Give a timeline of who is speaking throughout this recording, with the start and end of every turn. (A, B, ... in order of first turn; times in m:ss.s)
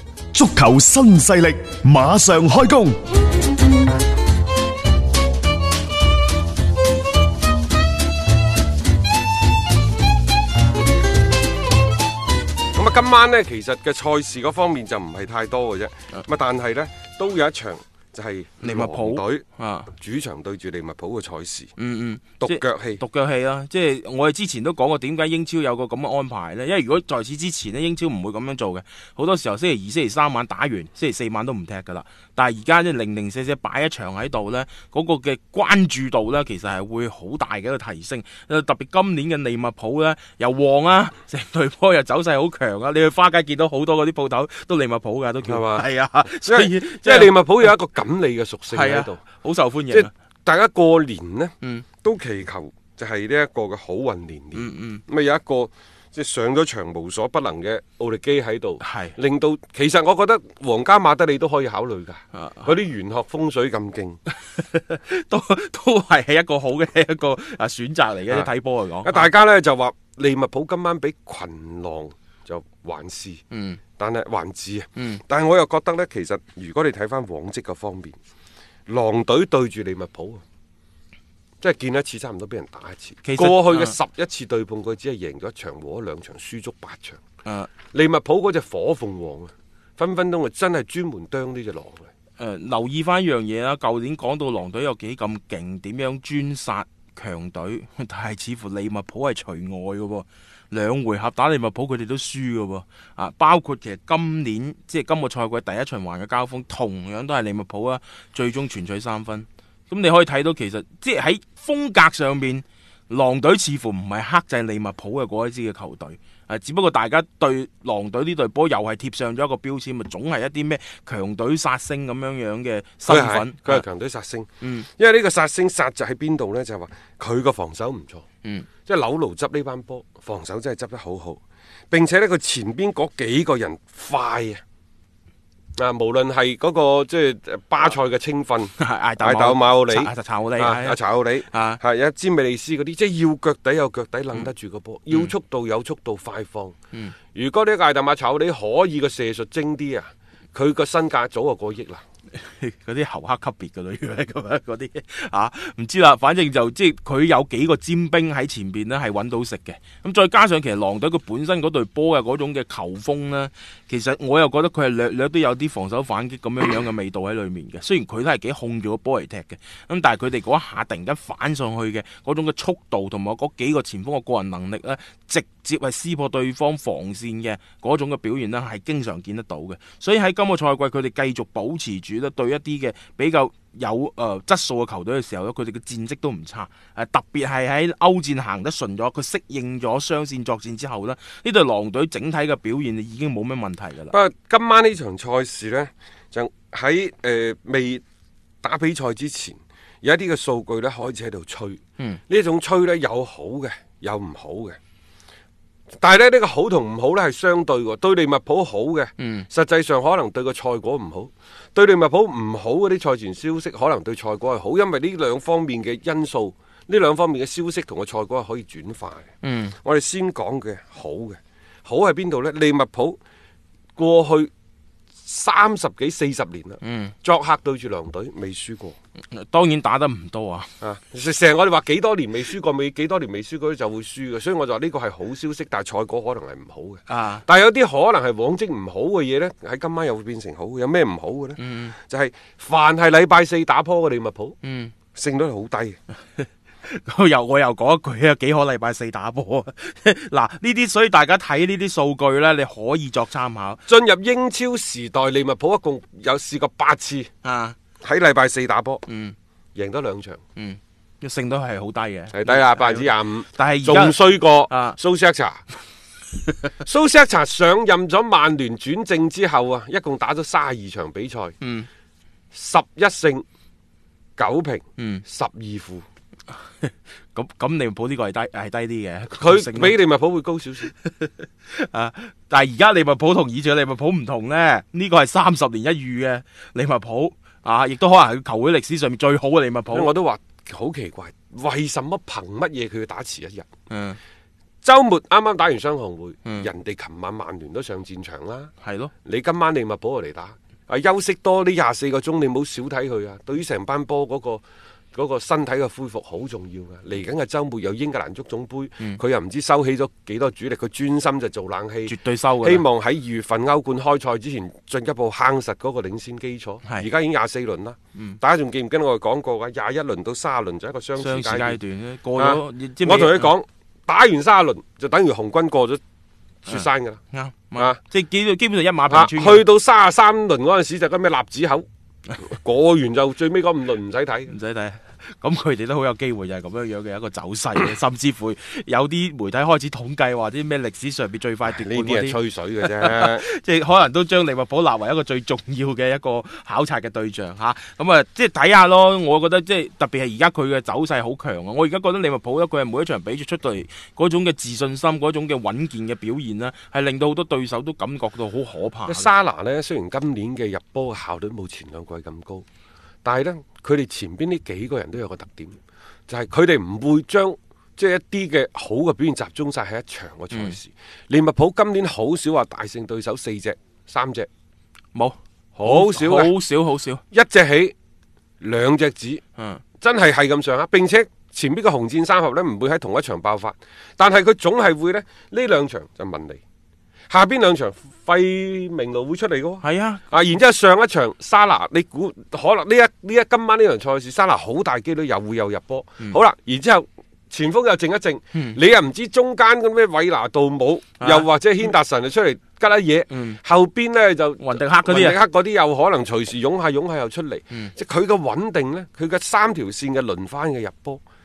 0:00.3-0:03.0 A
0:12.7-0:21.7 B
0:18.6-0:19.9 C
0:21.8-0:47.7 C
0:22.4-0:23.0 B
0:45.4-0:49.2 B
0:48.7-0:50.1 C
0:49.9-1:04.2 B
0:54.5-0:55.0 C
0:58.8-0:59.1 C
1:02.4-1:02.7 C
1:04.5-1:09.3 C
1:09.0-1:13.4 B
1:13.5-1:13.8 C
1:14.0-1:18.2 B
1:18.9-1:20.4 B
1:21.6-1:27.2 B
1:23.2-1:23.9 C
1:27.4-1:27.7 C
1:27.9-1:32.1 B
1:32.4-2:03.8 C
2:03.1-2:08.2 B
2:04.6-2:04.9 C
2:08.8-2:11.4 B
2:11.9-2:14.6 B
2:15.8-2:26.7 B
2:18.8-2:21.0 C
2:21.5-2:21.8 C
2:27.3-2:32.0 B
2:32.4-3:14.1 C
3:14.1-3:18.0 B
3:18.6-3:24.8 B
3:26.0-3:39.3 B
3:29.2-3:29.5 C
3:39.4-3:39.7 C
3:39.8-3:43.2 B
3:44.0-3:44.5 B
3:45.2-3:49.0 B
3:46.8-3:47.1 C
3:49.3-3:50.7 C
3:50.8-4:04.6 B
3:57.1-3:57.4 C
4:01.6-4:01.9 C
4:04.6-4:04.9 C
4:05.1-4:06.0 B
4:06.4-4:13.8 C
4:13.9-4:17.3 B
4:17.4-4:17.8 C
4:18.0-4:19.0 B
4:19.1-4:19.3 C
4:19.7-4:20.4 B
4:20.6-4:25.0 C
4:22.3-4:25.6 B
4:26.8-4:31.6 B
4:31.6-4:31.9 C
4:32.5-4:33.4 B
4:34.4-4:36.0 B
4:35.0-4:35.2 C
4:36.8-4:40.0 C
4:39.3-4:40.9 B
4:41.1-4:50.1 C
4:49.9-4:53.6 B
4:53.9-4:54.2 C
4:54.8-4:58.7 B
4:58.8-4:59.1 C
4:59.2-5:21.8 B
5:12.1-5:12.8 C
5:21.2-5:23.5 C
5:22.4-5:26.0 B
5:26.6-5:27.2 B
5:26.6-5:29.6 C
5:29.1-5:31.8 B
5:32.4-5:34.5 B
5:34.5-5:42.4 C
5:41.7-5:43.4 B
5:42.9-5:59.3 C
5:59.1-6:02.6 B
6:03.2-6:05.8 B
6:06.3-6:14.5 B
6:15.1-6:17.2 C
6:15.8-6:16.5 B
6:17.3-6:17.9 B
6:18.6-6:19.4 B
6:20.0-6:26.6 B
6:27.3-6:51.2 B
6:29.8-6:30.2 C
6:41.2-6:41.5 C
6:43.3-6:43.6 C
6:44.6-6:45.4 C